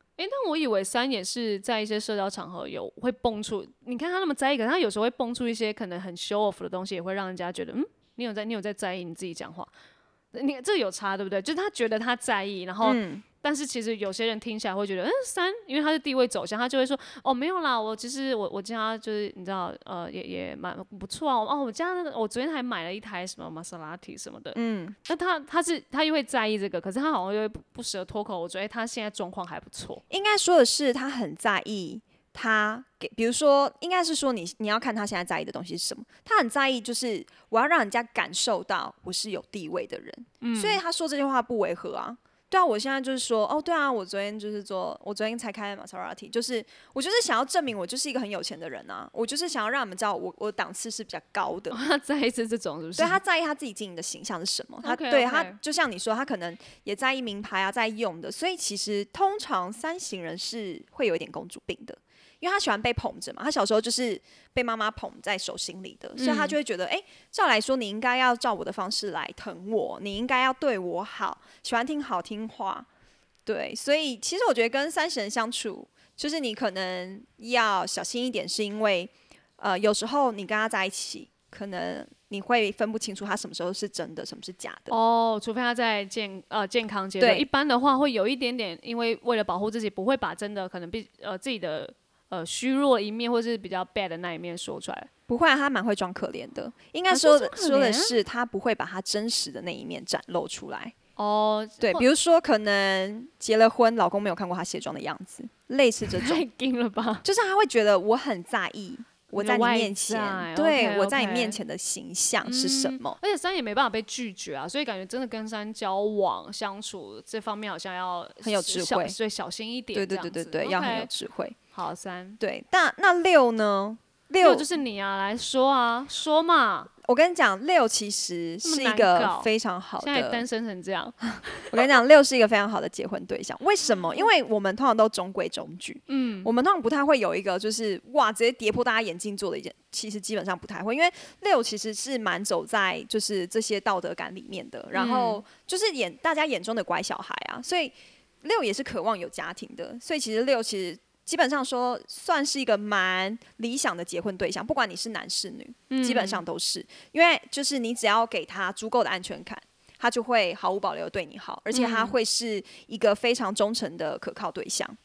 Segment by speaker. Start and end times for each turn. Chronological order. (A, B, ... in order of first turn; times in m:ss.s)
0:00.2-0:09.7 A
0:10.3-0:30.0 A
0:12.8-0:13.2 B
0:24.5-0:25.0 B
0:30.1-0:51.8 B
0:40.4-0:40.8 A
0:51.7-0:53.2 A
0:53.0-1:12.9 B
0:54.8-0:55.6 A
1:06.2-1:06.6 A
1:13.4-1:24.9 B
1:24.9-1:35.1 A
1:27.2-1:27.4 B
1:35.3-1:40.9 B
1:37.1-1:38.2 A
1:41.2-1:42.0 A
1:41.8-1:46.4 B
1:46.1-1:47.2 A
1:47.2-1:53.2 B
1:49.3-1:51.6 A
1:52.4-2:01.1 A
1:58.4-1:59.2 B
1:59.9-2:01.6 B
2:01.7-2:02.4 A
2:02.4-2:04.7 B
2:04.4-2:06.9 A
2:07.0-2:10.4 B
2:08.6-2:12.0 A
2:11.7-2:45.0 B
2:16.1-2:16.5 A
2:24.9-2:25.4 A
2:35.9-2:36.4 A
2:41.7-2:42.1 A